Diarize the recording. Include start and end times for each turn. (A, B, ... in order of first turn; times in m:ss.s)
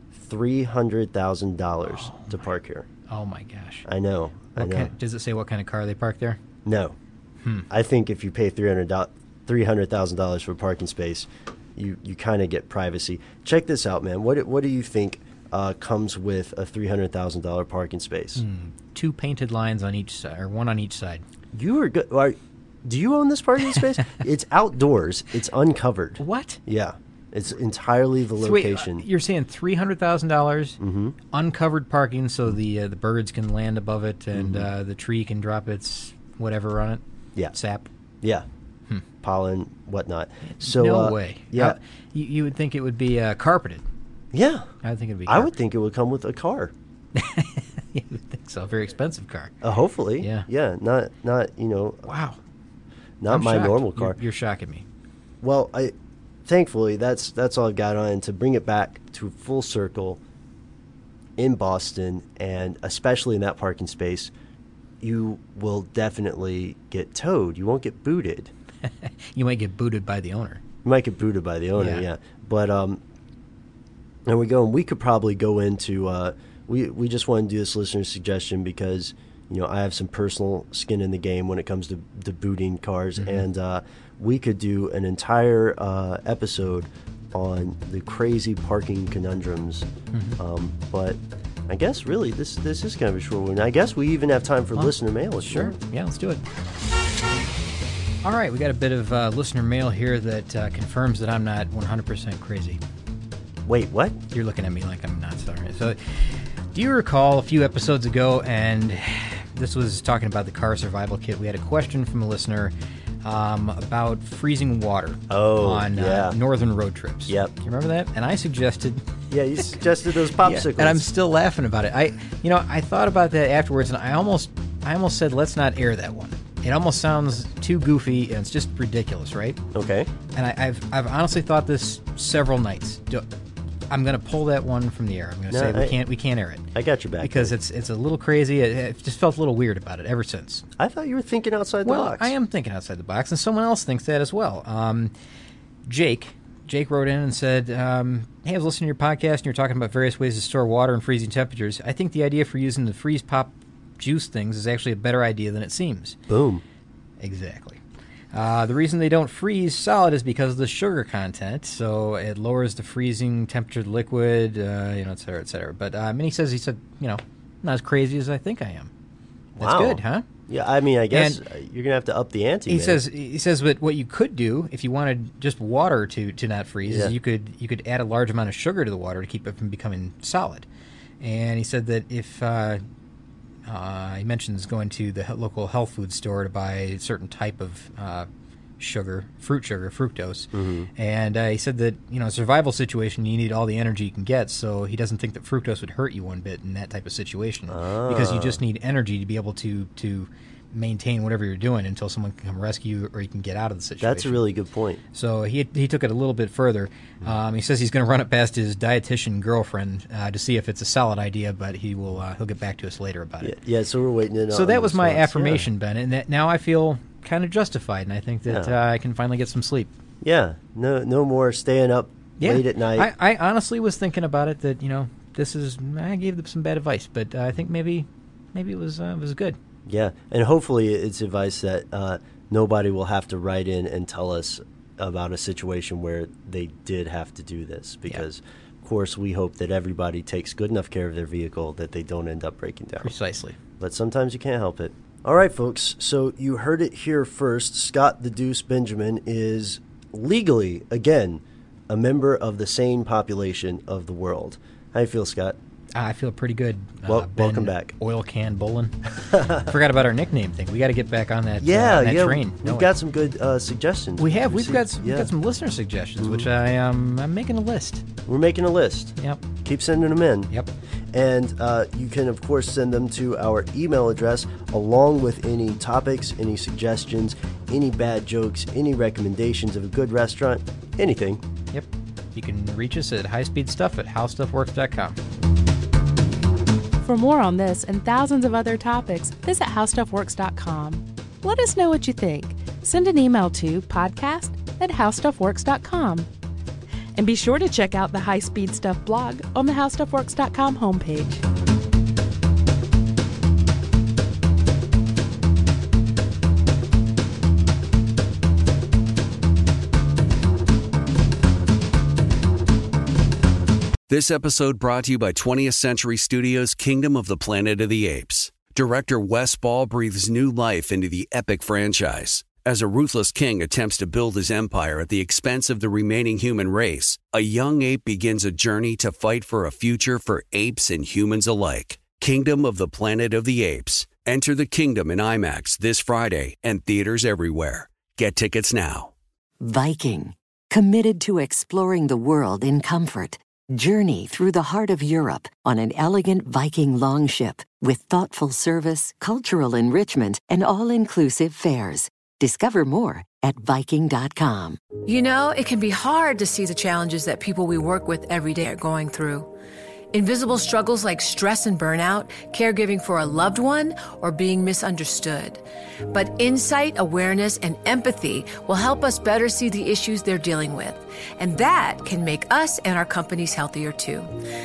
0:00.1-0:02.9 A
0:01.9-0:02.4 B
0:03.1-0:03.9 B
0:03.9-0:04.9 A
0:04.6-0:06.4 B
0:06.6-0:07.0 A
0:07.7-0:18.4 A
0:18.4-0:21.2 B
0:21.5-0:29.1 A
0:26.2-0:26.6 B
0:28.4-0:30.8 B
0:30.8-0:31.2 A
0:31.3-0:37.0 B
0:34.3-0:34.7 A
0:37.5-0:37.9 B
0:39.2-0:41.8 A
0:40.4-0:43.8 B
0:44.3-0:44.7 A
0:44.8-0:45.5 B
0:45.3-0:46.7 A
0:47.2-0:49.5 B
0:49.6-0:52.1 A
0:50.2-0:50.5 B
0:52.1-0:52.4 B
0:53.2-0:54.2 A
0:53.3-0:54.9 B
0:55.4-0:55.9 A
0:56.5-1:00.2 A
1:01.4-1:04.3 A
1:05.0-1:08.5 A
1:08.8-1:10.6 B
1:10.8-1:13.0 A
1:11.8-1:12.1 B
1:14.3-1:29.9 A
1:30.1-1:30.4 B
1:30.4-1:35.8 A
1:35.5-1:36.4 B
1:38.2-1:42.8 B
1:43.7-1:44.2 A
1:44.3-1:46.0 B
1:46.7-1:59.0 B
1:55.3-1:56.4 A
1:57.3-1:57.5 A
1:59.3-2:01.1 A
2:00.4-2:09.6 B
2:09.7-2:10.1 A
2:10.4-2:13.3 B
2:13.9-2:16.7 B
2:15.5-2:16.0 A
2:16.7-2:17.6 A
2:17.2-2:20.6 B
2:20.8-2:22.3 A
2:21.8-2:25.1 B
2:25.9-2:36.2 B
2:36.3-2:36.6 A
2:37.2-2:37.8 B
2:38.3-2:48.9 B
2:49.6-2:50.3 B
2:49.6-2:53.0 A
2:51.1-2:51.4 B
2:52.7-3:00.7 B
2:56.8-2:57.2 A
3:01.2-3:02.8 B
3:03.7-3:08.3 B
3:08.8-3:24.4 B
3:10.5-3:10.9 A
3:17.7-3:18.6 A
3:24.0-3:25.0 A
3:25.1-3:33.6 B
3:33.4-3:35.7 A
3:34.5-3:39.9 B
3:38.5-3:38.7 A
3:40.2-3:43.1 A
3:42.4-3:49.6 B
3:49.9-4:03.1 A
4:03.0-4:03.6 B
4:03.8-4:15.6 A
4:16.0-4:22.9 B
4:17.1-4:18.0 A
4:19.3-4:19.7 A
4:21.6-4:25.3 A
4:24.2-4:28.1 B
4:26.2-4:26.5 A
4:28.3-4:30.5 A
4:29.2-4:29.4 B
4:31.1-4:41.4 A
4:41.7-4:45.2 B
4:47.0-4:56.3 C
4:57.2-5:01.4 C
5:14.1-5:39.1 D
5:39.6-5:54.8 E
5:55.0-5:59.5 F
6:00.1-6:14.4 F